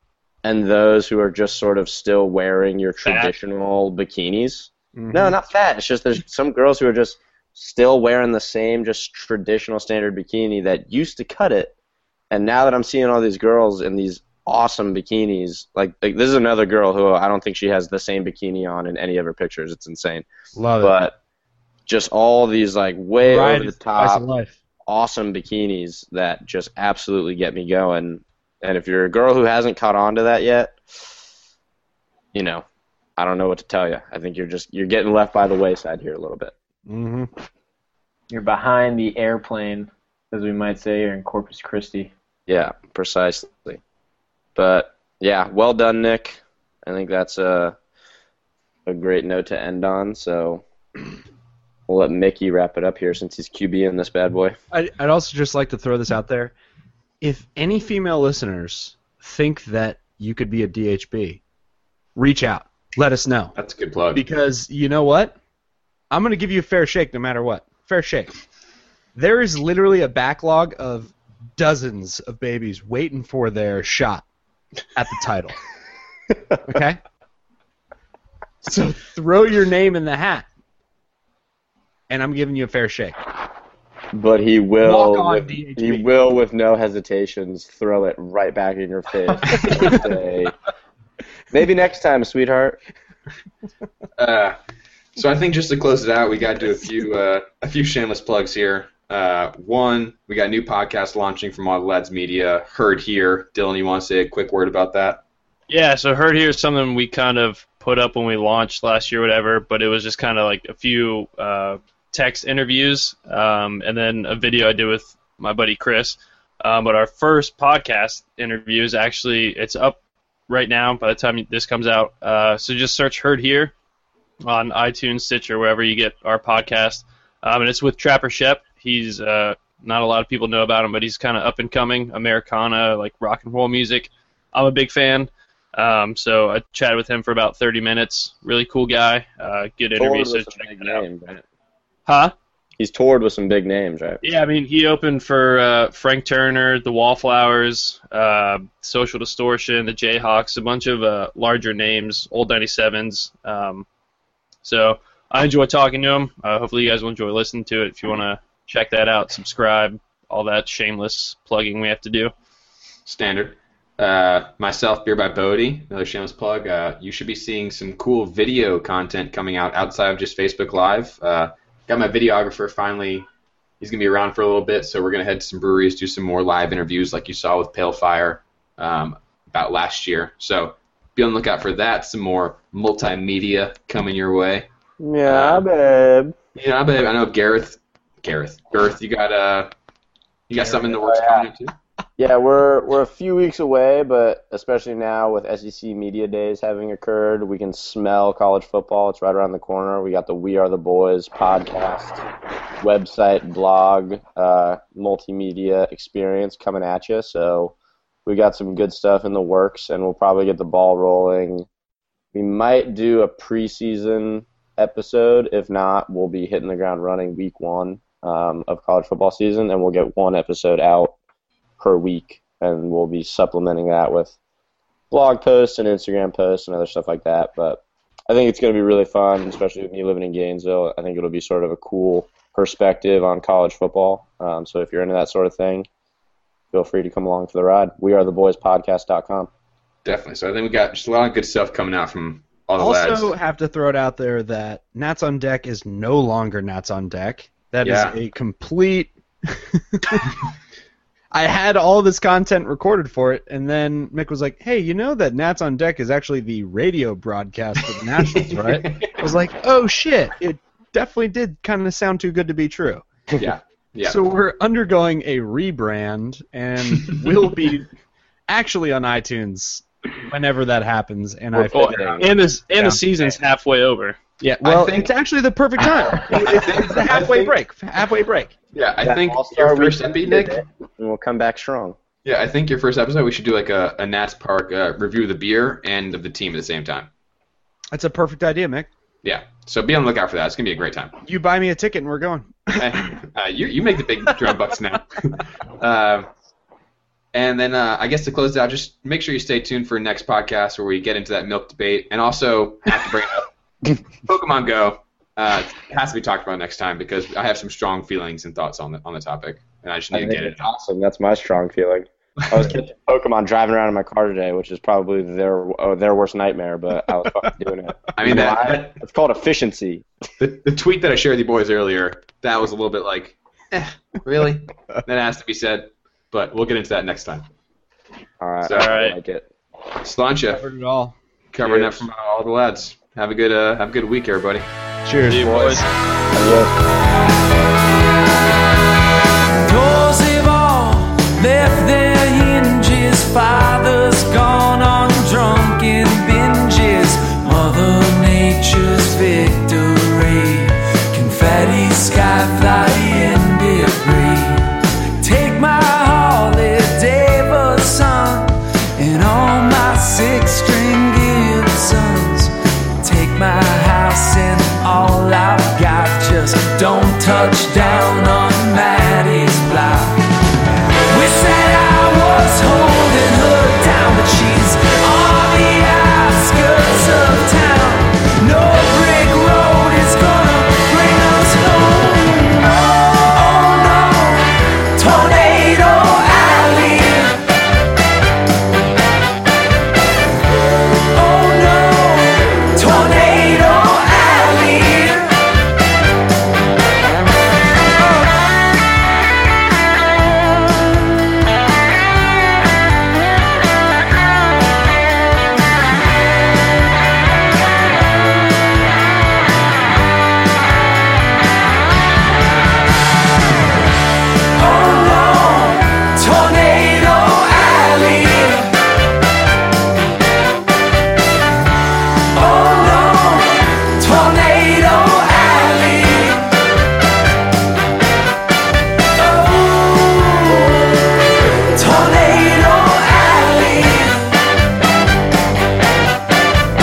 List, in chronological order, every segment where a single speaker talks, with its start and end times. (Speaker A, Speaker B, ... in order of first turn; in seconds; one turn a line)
Speaker A: 0.4-11.8
Speaker B: 3.0-3.3
Speaker C: 5.0-5.4
Speaker A: 12.3-20.2
Speaker C: 20.6-21.0
Speaker A: 20.8-21.1
Speaker A: 21.9-24.3
Speaker C: 23.2-24.6
Speaker A: 24.9-30.8
Speaker A: 32.3-32.6
Speaker A: 33.2-36.5
Speaker C: 36.9-37.3
Speaker D: 38.3-42.1
Speaker A: 42.5-43.8
Speaker A: 44.6-47.8
Speaker A: 48.9-50.6
Speaker A: 51.9-54.6
Speaker C: 54.7-56.5
Speaker C: 57.2-61.4
Speaker C: 62.2-63.5
Speaker E: 63.6-64.2
Speaker C: 64.1-65.4
Speaker C: 66.1-68.3
Speaker C: 69.2-74.2
Speaker C: 75.0-75.5
Speaker C: 76.7-77.0
Speaker C: 78.6-80.5
Speaker C: 82.1-83.2
Speaker A: 84.1-90.6
Speaker C: 84.8-86.1
Speaker E: 89.6-90.0
Speaker A: 91.5-92.8
Speaker E: 94.2-94.6
Speaker E: 95.2-105.2
Speaker B: 105.7-123.7
Speaker B: 124.4-141.0
Speaker A: 139.9-141.4
Speaker B: 142.1-142.3
Speaker A: 142.8-144.2
Speaker B: 144.2-153.9
Speaker B: 154.6-162.3
Speaker E: 163.1-173.3
Speaker E: 173.8-184.7
Speaker A: 185.0-186.3
Speaker E: 185.3-185.7
Speaker E: 186.6-189.7
Speaker E: 190.5-191.7
Speaker A: 190.5-191.5
Speaker A: 192.2-202.2
Speaker A: 202.8-207.8
Speaker A: 208.3-211.7
Speaker A: 212.3-221.2
Speaker A: 221.8-224.3
Speaker A: 225.1-235.9
Speaker A: 236.7-239.5
Speaker E: 240.1-243.3
Speaker C: 242.8-250.3
Speaker E: 247.8-248.2
Speaker C: 251.3-263.1
Speaker E: 258.2-259.2
Speaker E: 263.4-264.2
Speaker C: 264.0-267.9
Speaker E: 266.9-267.3
Speaker C: 268.5-273.0
Speaker A: 271.5-272.3
Speaker B: 271.7-274.2
Speaker C: 274.4-278.5
Speaker E: 274.6-275.1
Speaker E: 276.3-277.5
Speaker E: 278.7-280.6
Speaker A: 279.0-282.0
Speaker E: 282.2-287.1
Speaker C: 287.9-288.9
Speaker E: 289.2-291.2
Speaker C: 291.2-293.1
Speaker E: 292.8-296.3
Speaker E: 297.3-310.7
Speaker A: 310.1-320.1
Speaker E: 312.4-312.8
Speaker E: 318.2-319.0
Speaker E: 320.4-327.5
Speaker A: 328.4-329.5
Speaker E: 328.6-328.9
Speaker B: 328.7-329.2
Speaker E: 330.0-330.6
Speaker C: 330.5-331.2
Speaker E: 331.5-334.7
Speaker A: 331.6-332.1
Speaker C: 335.1-335.9
Speaker B: 335.3-335.9
Speaker A: 336.4-336.8
Speaker F: 339.6-370.3
Speaker F: 371.1-387.5
Speaker F: 391.1-395.4
Speaker F: 414.6-418.7
Speaker F: 422.3-426.5
Speaker F: 429.2-430.9
Speaker F: 431.7-434.4